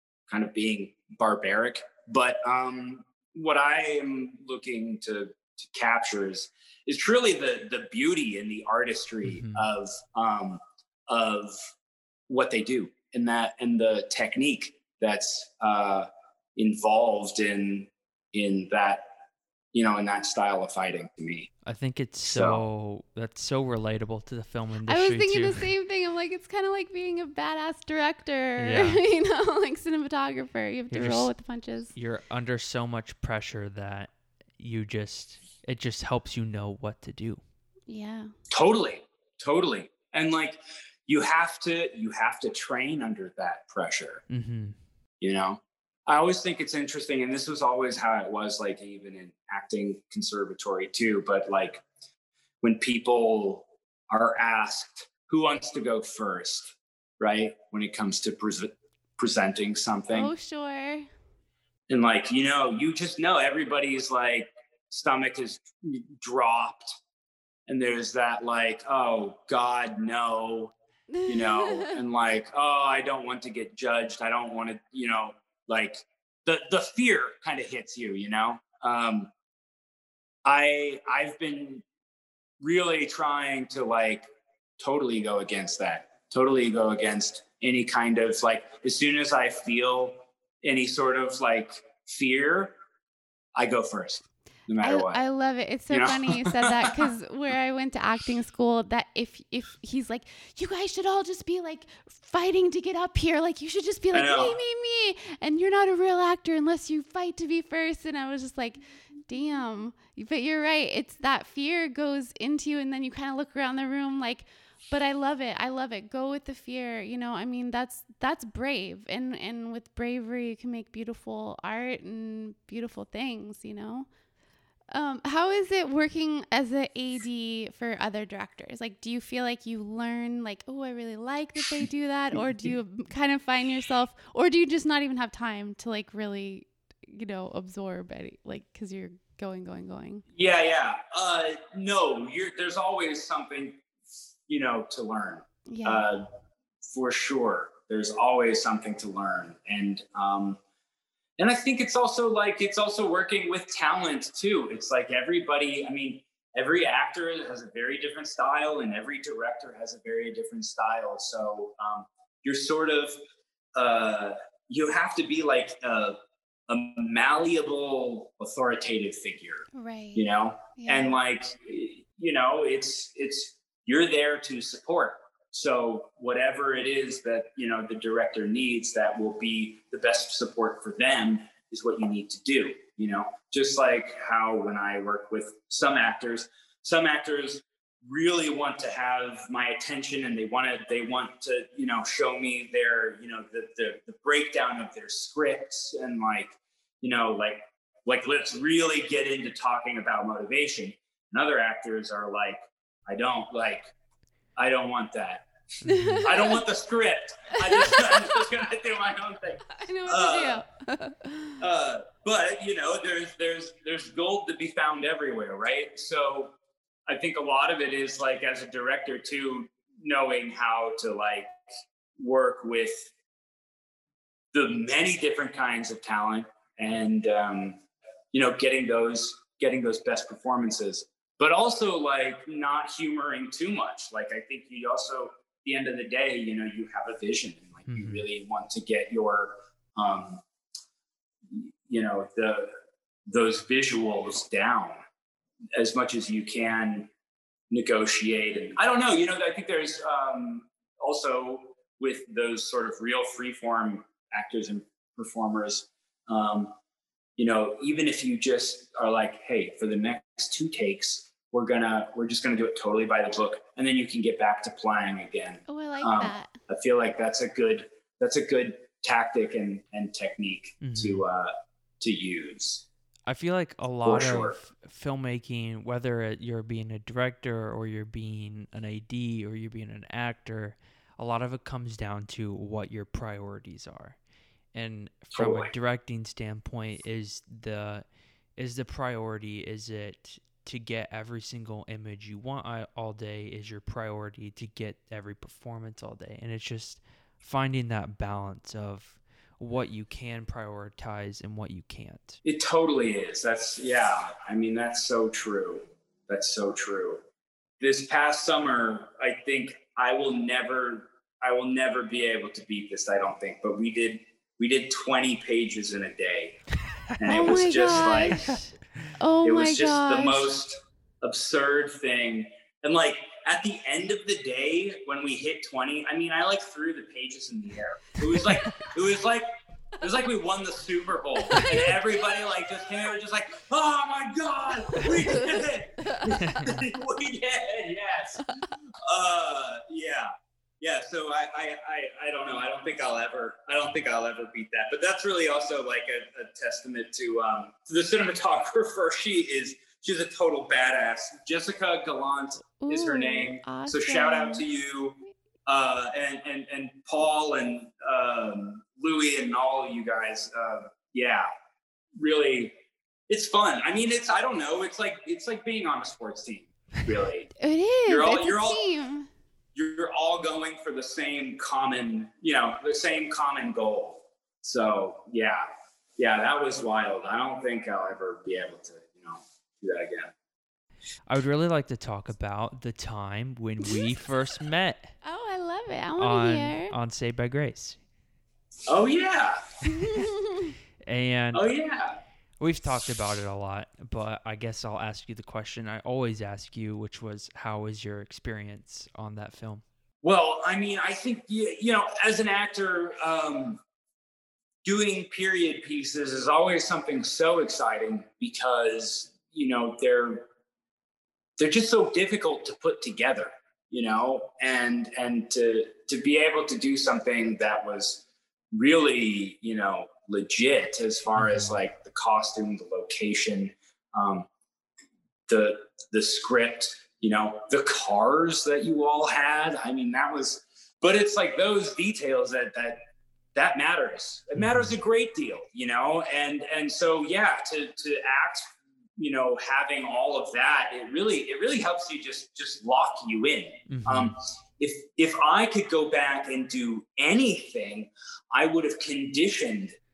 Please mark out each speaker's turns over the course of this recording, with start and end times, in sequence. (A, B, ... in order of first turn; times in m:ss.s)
0:00.3-0:11.6 A
0:09.3-0:09.7 B
0:12.3-0:19.1 A
0:19.7-0:21.5 A
0:21.6-0:25.7 B
0:22.2-0:22.6 A
0:24.9-0:32.0 C
0:28.6-0:29.0 B
0:30.9-0:31.3 B
0:32.0-0:37.4 B
0:37.9-0:38.3 C
0:38.5-0:44.2 A
0:44.3-0:44.8 B
0:45.2-0:51.8 A
0:52.6-1:00.3 A
1:00.1-1:01.1 C
1:01.9-1:06.9 A
1:07.7-1:10.7 A
1:11.1-1:12.0 C
1:11.3-1:19.3 A
1:20.4-1:21.8 A
1:22.6-1:24.3 A
1:24.8-1:32.8 A
1:33.6-1:35.2 A
1:34.8-2:04.1 C
1:35.9-1:37.0 A
1:44.1-1:44.6 A
2:04.9-2:20.2 C
2:20.4-2:23.8 A
2:24.5-2:26.2 A
2:25.7-2:26.0 C
2:26.9-2:30.6 A
2:31.4-2:43.2 A
2:43.8-3:23.9 A
2:49.7-2:51.2 C
3:24.6-3:25.5 A
3:25.8-3:26.2 B
3:25.9-3:26.6 C
3:26.2-3:30.6 A
3:27.6-3:28.4 C
3:29.7-3:31.6 C
3:31.6-3:36.5 A
3:37.1-3:41.6 A
3:42.2-3:43.1 A
3:44.5-3:47.8 A
3:48.3-4:00.4 A
3:57.9-3:58.2 B
4:01.5-4:02.7 A
4:03.3-4:05.0 A
4:05.8-4:07.1 A
4:07.7-4:16.7 A
4:17.4-4:32.9 A
4:25.7-4:26.5 C
4:30.8-4:31.2 B
4:33.3-4:44.2 B
4:34.0-4:34.6 A
4:44.7-4:48.0 B
4:45.3-4:45.7 A
4:48.6-5:02.4 B
5:02.4-5:07.2 A
5:07.8-5:16.6 A
5:17.2-5:18.5 A
5:17.3-5:18.4 C
5:18.4-5:19.1 B
5:19.2-5:20.5 C
5:19.4-5:38.5 A
5:31.5-5:32.6 C
5:35.0-5:36.8 C
5:36.4-5:36.8 B
5:39.1-6:01.5 A
5:52.8-5:54.7 C
6:02.2-6:02.7 A
6:03.3-6:07.5 A
6:07.6-6:09.3 C
6:08.1-6:08.8 A
6:09.8-6:20.3 A
6:21.3-6:25.2 B
6:25.2-6:26.9 C
6:26.2-6:28.0 B
6:28.9-6:29.6 A
6:29.9-6:30.8 C
6:31.0-6:31.7 B
6:31.5-6:32.2 A
6:32.6-6:39.8 B
6:40.2-6:43.8 A
6:44.8-6:50.5 A
6:51.6-7:04.5 A
7:01.4-7:01.8 B
7:05.5-7:13.0 A
7:13.6-7:30.0 A
7:14.6-7:14.9 B
7:23.9-7:24.4 B